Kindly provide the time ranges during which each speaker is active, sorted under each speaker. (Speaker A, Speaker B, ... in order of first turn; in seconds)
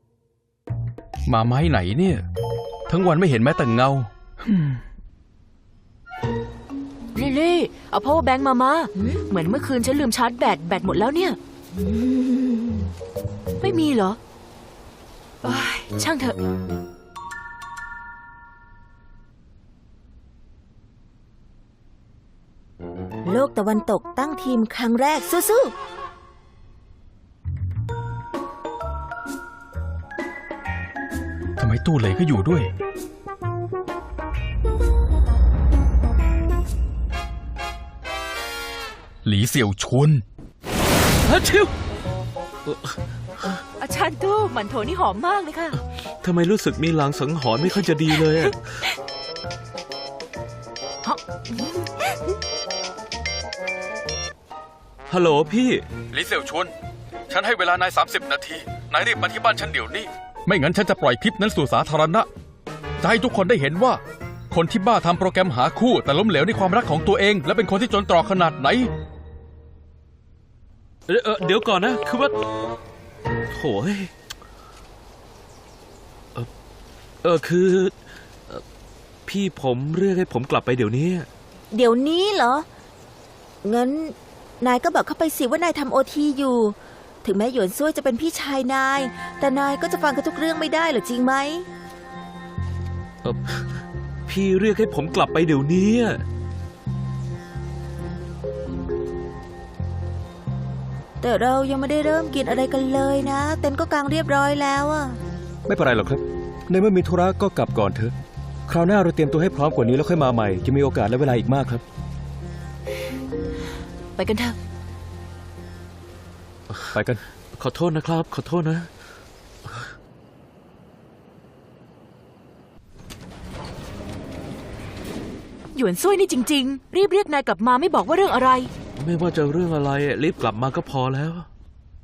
Speaker A: 1.3-2.2, 2.9-4.6, 31.6-32.7, 39.2-40.2, 56.1-56.7, 57.3-62.3, 63.0-64.0, 64.5-68.9
Speaker B: 7.1-11.4, 13.6-14.2, 15.4-16.4, 43.8-45.8, 51.0-52.2, 114.2-114.6, 125.7-128.7
Speaker C: 23.2-25.7, 81.7-82.7, 83.6-91.7, 101.2-105.2
Speaker D: 41.3-41.7, 42.6-43.6, 46.2-48.6, 55.1-55.8, 71.1-72.3, 73.5-74.1, 77.2-77.9, 79.3-81.3, 93.2-93.6, 94.3-96.2, 117.5-118.9, 129.0-131.5
Speaker E: 105.7-108.1, 108.7-111.8, 116.9-117.2